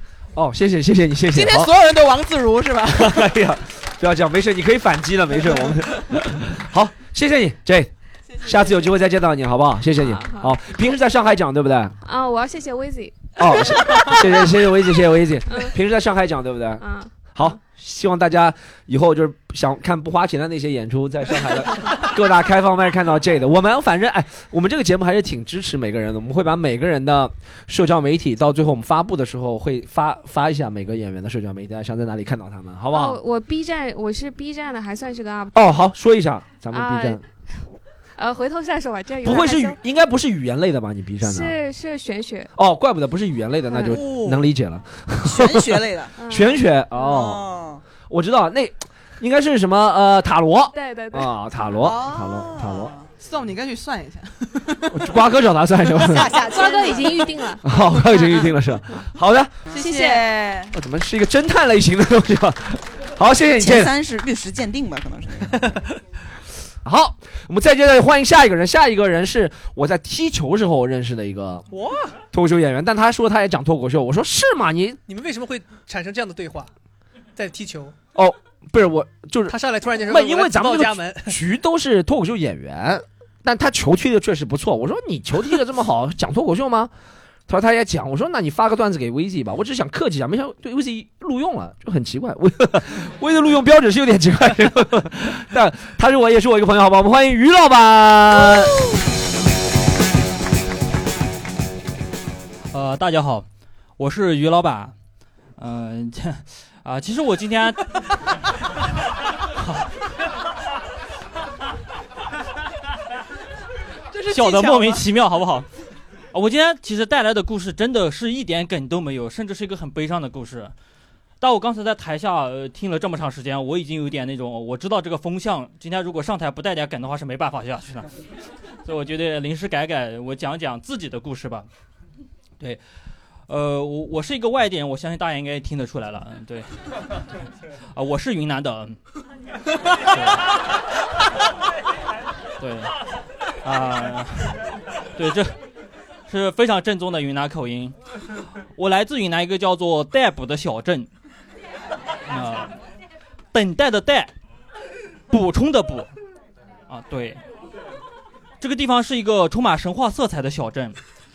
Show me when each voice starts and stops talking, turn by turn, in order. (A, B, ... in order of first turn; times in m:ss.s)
0:00.4-0:01.7 A
0:01.3-0:03.3 B
0:03.0-0:11.9 A
0:08.3-0:08.9 B
0:09.9-0:10.6 C
0:12.0-0:14.4 C
0:13.4-0:33.2 A
0:16.8-0:17.5 C
0:32.9-0:35.6 C
0:35.5-0:37.2 A
0:36.7-0:37.2 C
0:38.2-0:39.8 C
0:39.2-0:41.6 A
0:41.2-0:42.5 C
0:42.6-0:47.4 A
0:43.7-0:44.0 C
0:43.9-0:44.5 B
0:45.2-0:46.1 D
0:46.2-0:47.3 C
0:47.0-0:47.8 D
0:48.1-0:52.9 A
0:50.7-0:51.4 C
0:51.8-0:53.1 D
0:53.2-0:55.0 B
0:54.9-0:56.3 A
0:56.1-0:57.2 D
0:56.3-0:58.6 C
0:56.9-0:57.3 B
0:57.6-0:59.6 A
0:59.7-1:00.7 B
0:59.8-1:00.3 C
1:00.7-1:03.9 A
1:03.6-1:05.8 D
1:06.8-1:11.6 A
1:11.7-1:12.1 E
1:12.3-1:15.0 A
1:15.1-1:16.7 E
1:17.4-1:17.9 E
1:18.1-1:26.9 A
1:19.5-1:21.4 E
1:27.5-1:38.8 A
1:42.7-1:43.4 F
1:44.0-1:44.9 F
1:45.6-1:47.9 F
1:49.6-1:49.9 F
1:54.1-1:55.0 B
1:54.3-1:55.7 F
1:56.3-2:00.7 F
2:01.4-2:08.1 F
2:08.8-2:11.7 F
2:13.5-2:16.8 F
2:17.9-2:19.0 F
2:20.1-2:20.4 F
2:22.6-2:22.9 F
2:23.6-2:24.6 F
2:25.2-2:25.6 F
2:26.3-2:27.9 F
2:28.8-2:31.1 F
2:32.3-2:32.7 F
2:33.5-2:34.3 F
2:35.3-2:36.1 F
2:36.9-2:37.4 F
2:38.6-2:41.0 F